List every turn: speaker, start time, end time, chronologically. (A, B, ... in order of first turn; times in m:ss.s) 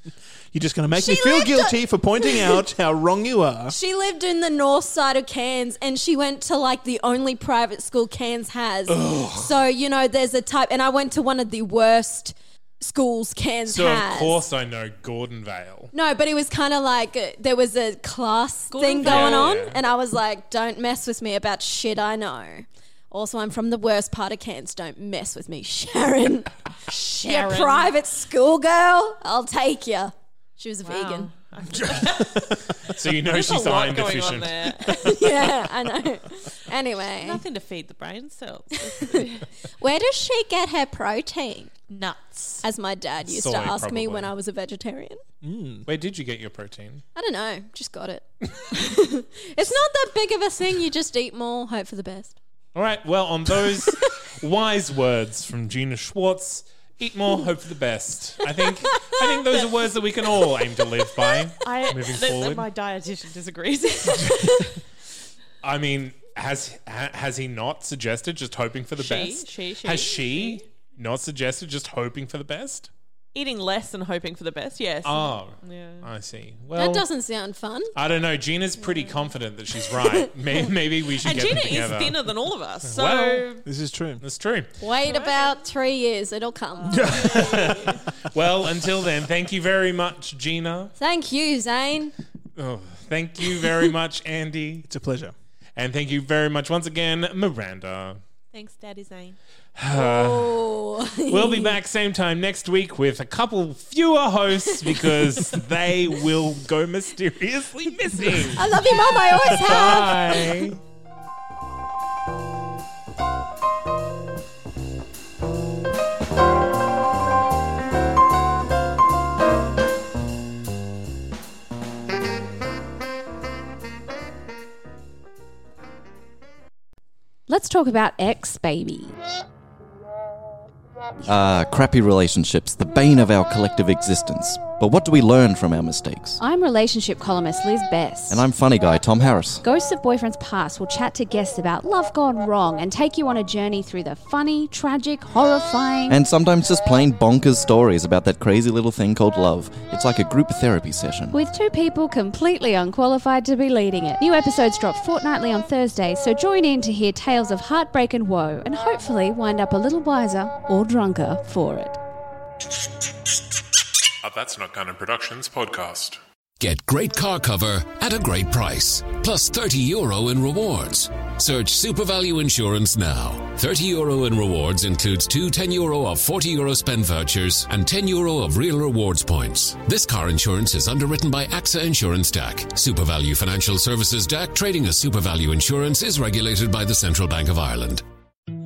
0:00.5-0:03.8 A
0:01.0-0:02.6 B
0:03.7-0:14.4 B
0:08.9-0:09.5 C
0:13.7-0:15.9 C
0:15.9-0:26.5 B
0:18.7-0:19.5 D
0:19.0-0:19.8 C
0:26.9-0:27.9 D
0:27.2-0:31.3 B
0:30.8-0:35.2 D
0:31.8-0:32.8 A
0:32.9-0:35.0 C
0:34.8-0:37.4 B
0:37.1-0:39.4 D
0:39.8-0:41.7 B
0:41.9-0:42.6 D
0:42.6-0:45.2 B
0:43.3-0:44.3 C
0:45.4-0:45.9 A
0:45.9-0:47.0 C
0:47.1-0:52.4 B
0:52.8-1:02.6 C
0:58.8-0:59.2 B
1:01.6-1:04.4 D
1:04.2-1:04.6 B
1:05.6-1:12.9 C
1:09.0-1:10.6 D
1:13.3-1:16.1 D
1:15.0-1:17.1 C
1:16.8-1:17.9 B
1:18.0-1:22.3 C
1:21.2-1:23.6 D
1:22.8-1:23.5 C
1:23.6-1:24.2 A
1:24.2-1:24.7 C
1:24.8-1:27.7 B
1:25.0-1:25.5 D
1:26.8-1:28.1 D
1:26.9-1:27.8 A
1:27.5-1:30.9 C
1:31.0-1:32.1 B
1:32.6-1:34.9 C
1:34.9-1:35.4 A
1:35.8-1:38.2 C
1:38.5-1:39.4 D
1:39.8-1:40.7 C
1:39.9-1:41.8 B
1:41.3-1:50.8 C
1:48.6-1:50.6 B
2:07.5-2:09.2 E
2:11.3-2:16.4 F
2:16.4-2:18.4 E
2:18.3-2:19.6 F
2:19.6-2:26.2 E
2:26.1-2:31.4 F
2:31.3-2:42.0 E
2:44.2-2:46.2 G
2:46.6-3:08.0 H